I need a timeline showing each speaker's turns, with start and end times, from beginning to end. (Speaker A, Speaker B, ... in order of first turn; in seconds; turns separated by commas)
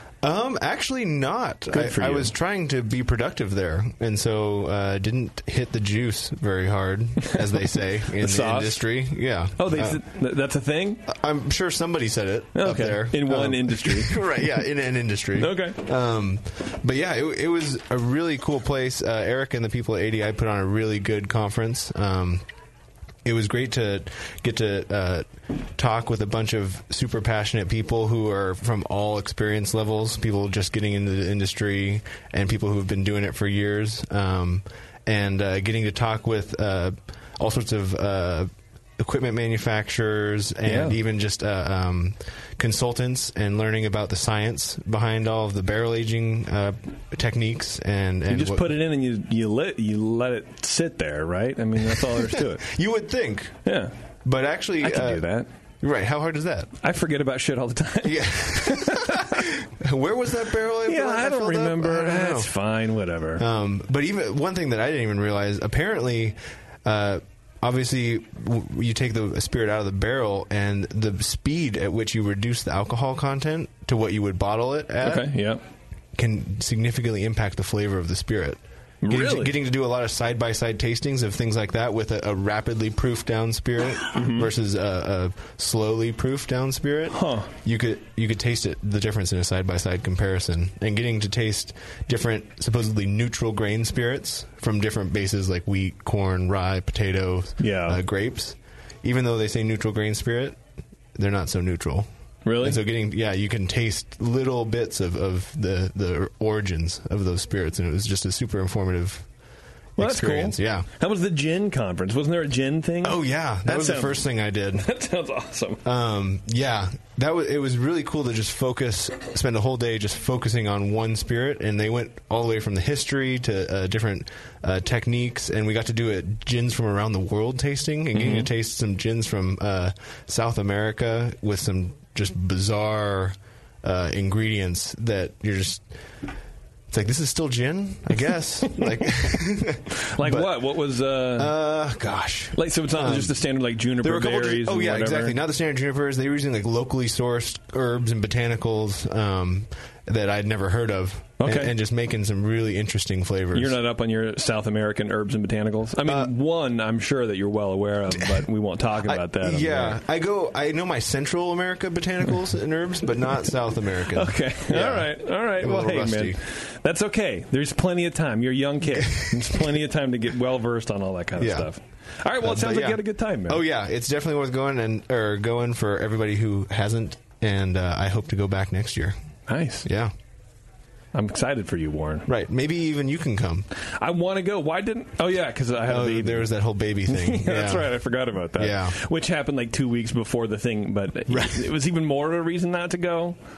Speaker A: 0.2-10.0, Speaker B: 1.7-2.3, Speaker B: 8.2-8.8, Speaker B: 9.6-11.1, Speaker A: 11.1-22.4, Speaker B: 12.5-14.4, Speaker B: 15.3-15.8, Speaker A: 23.2-48.7, Speaker B: 40.6-41.0, Speaker B: 48.3-52.6, Speaker A: 52.0-53.6, Speaker B: 53.6-53.9, Speaker A: 54.2-55.2, Speaker B: 54.8-55.5, Speaker A: 55.8-56.7, Speaker B: 56.8-59.5, Speaker A: 58.0-62.5, Speaker B: 60.8-63.4, Speaker A: 63.4-75.3, Speaker B: 75.0-75.6, Speaker A: 76.2-100.6, Speaker B: 79.0-79.6, Speaker B: 84.1-84.5, Speaker B: 87.1-87.5, Speaker B: 97.6-98.0, Speaker A: 101.2-102.0, Speaker B: 102.4-102.8, Speaker A: 102.6-109.3, Speaker A: 110.0-110.8, Speaker B: 110.0-114.2, Speaker A: 113.0-114.9, Speaker B: 114.7-115.8, Speaker A: 115.8-135.9, Speaker B: 128.1-128.5, Speaker A: 136.9-140.7, Speaker B: 140.0-141.5, Speaker A: 141.3-143.4, Speaker B: 142.5-145.4, Speaker A: 144.0-153.8, Speaker B: 151.4-151.7, Speaker B: 153.5-160.0, Speaker A: 156.0-156.3, Speaker A: 158.2-158.4, Speaker A: 159.0-166.4, Speaker B: 164.1-173.6, Speaker A: 169.0-169.4, Speaker A: 171.4-171.7, Speaker A: 172.4-179.1, Speaker B: 179.5-179.9, Speaker A: 179.8-180.1, Speaker B: 181.1-182.3, Speaker A: 182.3-183.7, Speaker B: 183.8-186.5, Speaker A: 185.9-188.0, Speaker B: 187.1-193.3, Speaker A: 188.5-188.9, Speaker A: 191.3-191.7